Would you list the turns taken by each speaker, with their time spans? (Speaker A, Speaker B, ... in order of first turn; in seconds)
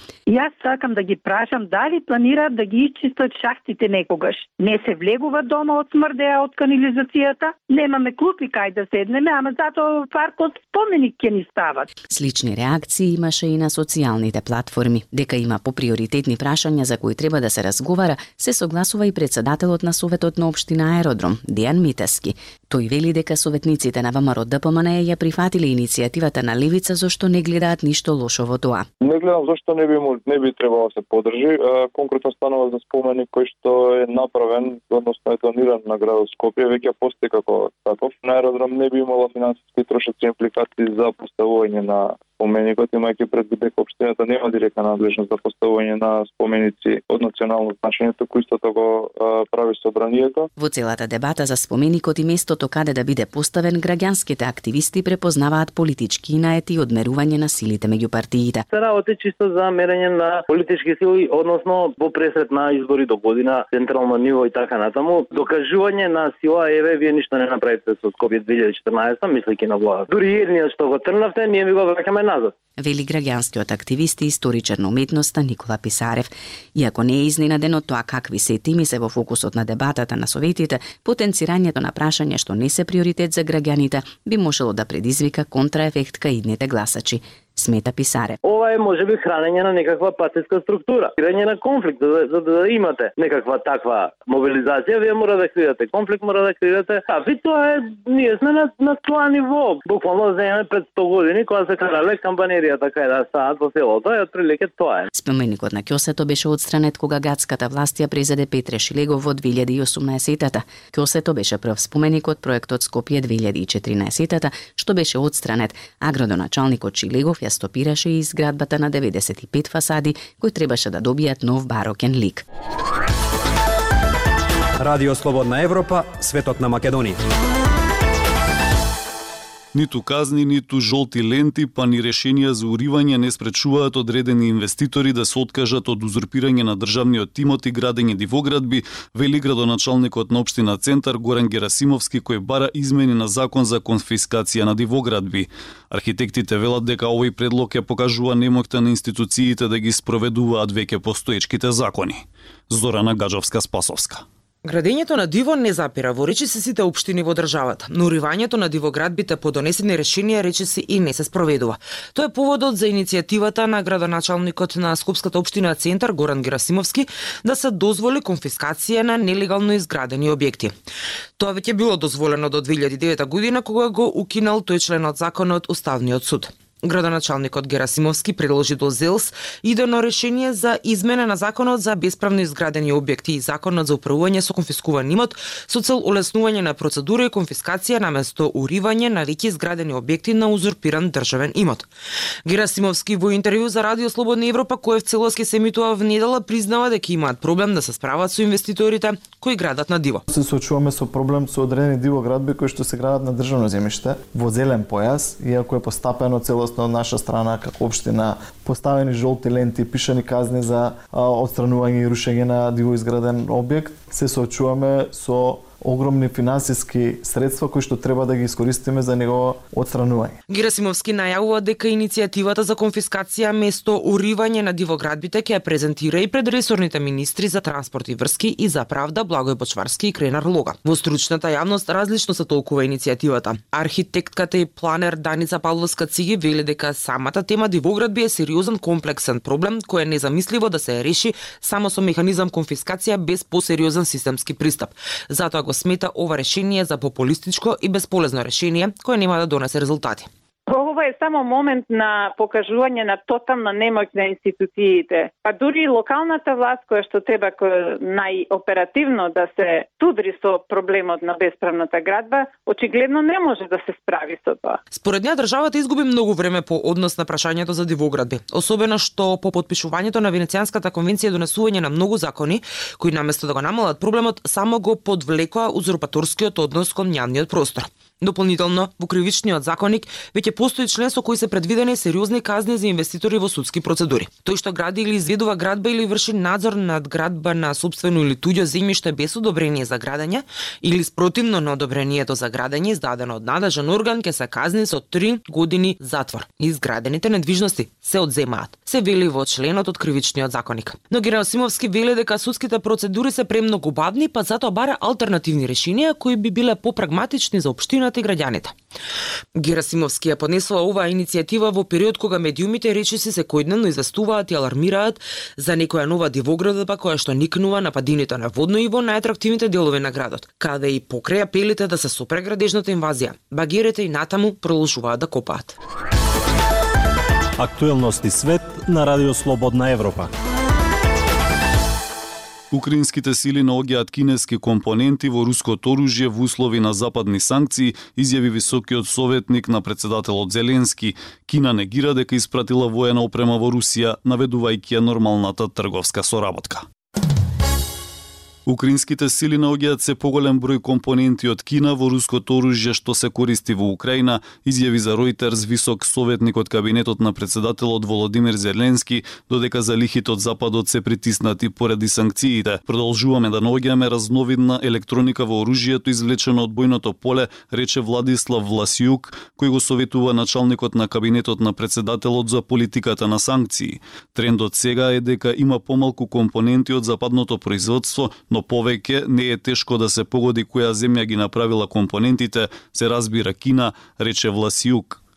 Speaker A: 0.3-11.9
Speaker B: 12.1-28.9, 50.6-58.7, 72.8-88.4, 105.1-122.4
Speaker C: 29.0-50.5
Speaker D: 58.7-72.5, 88.4-105.1
Speaker E: 124.8-127.2
Speaker F: 125.5-126.2, 327.6-330.3
Speaker G: 129.7-154.2, 332.7-346.9, 348.7-385.2
Speaker H: 154.6-170.7, 171.4-191.9, 192.4-200.2, 220.5-250.3, 264.9-308.8, 309.6-325.8
Speaker I: 200.3-220.4
Speaker J: 250.7-264.8